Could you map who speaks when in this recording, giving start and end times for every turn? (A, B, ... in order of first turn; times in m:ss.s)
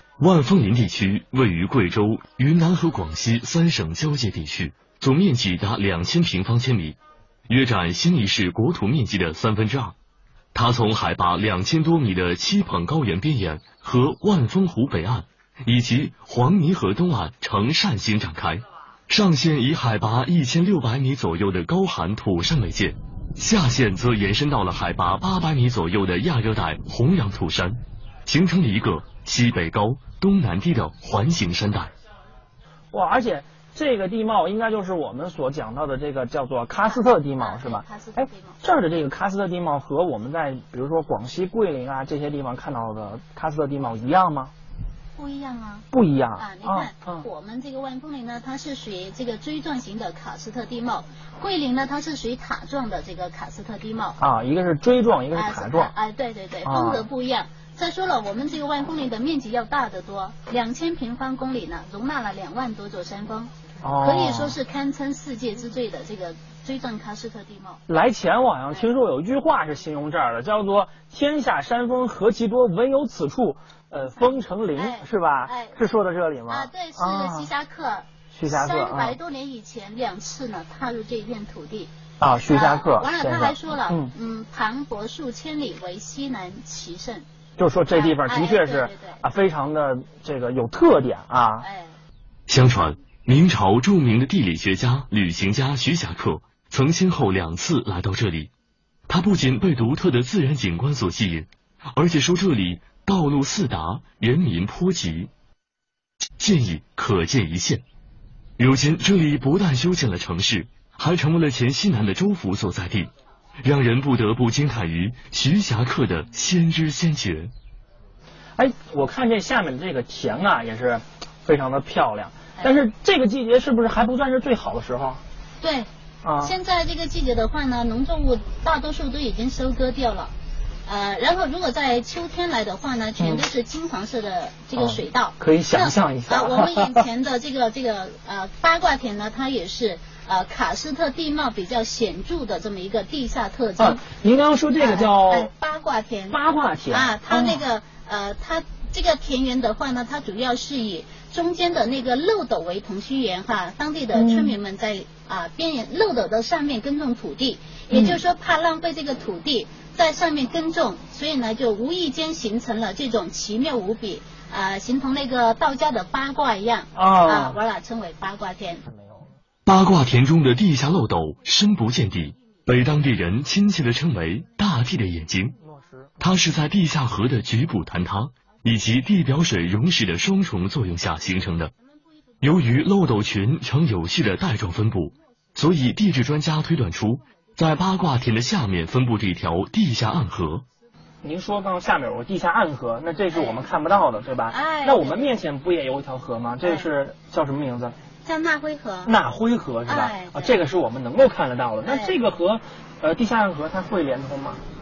0:00.2-0:10.0 A
0:10.5-0:31.9 A
0:32.9-0:44.5 B
0:36.8-0:38.6 C
0:45.2-0:54.2 C
0:45.9-0:47.2 B
0:54.2-0:55.9 B
0:55.3-1:07.8 C
0:56.6-0:57.1 B
1:03.8-1:04.6 B
1:07.9-1:17.5 B
1:14.8-1:15.8 C
1:16.5-1:21.9 C
1:18.3-1:19.2 B
1:22.2-1:24.1 B
1:22.5-1:27.2 C
1:27.6-1:31.7 B
1:27.9-1:29.2 C
1:31.6-1:32.0 C
1:32.5-1:38.5 A
1:39.1-1:45.3 A
1:46.4-1:47.8 A
1:48.6-1:53.1 A
1:53.6-1:57.5 A
1:58.6-2:05.2 B
2:05.6-2:10.3 C
2:06.2-2:06.5 B
2:10.8-2:24.0 C
2:14.8-2:17.0 B
2:23.8-2:25.5 B
2:24.8-2:26.4 C
2:26.3-2:27.6 B
2:26.9-2:48.8 C
2:34.1-2:34.6 B
2:37.9-2:38.2 B
2:47.0-2:47.6 B
2:48.8-2:49.3 B
2:49.7-2:55.6 A
2:55.6-2:56.1 B
2:56.2-3:01.7 A
3:02.4-3:10.6 A
3:11.2-3:18.0 B
3:13.3-3:13.6 C
3:14.5-3:15.4 C
3:18.2-3:19.1 C
3:19.1-3:24.6 B
3:19.8-3:20.6 C
3:21.8-3:22.2 C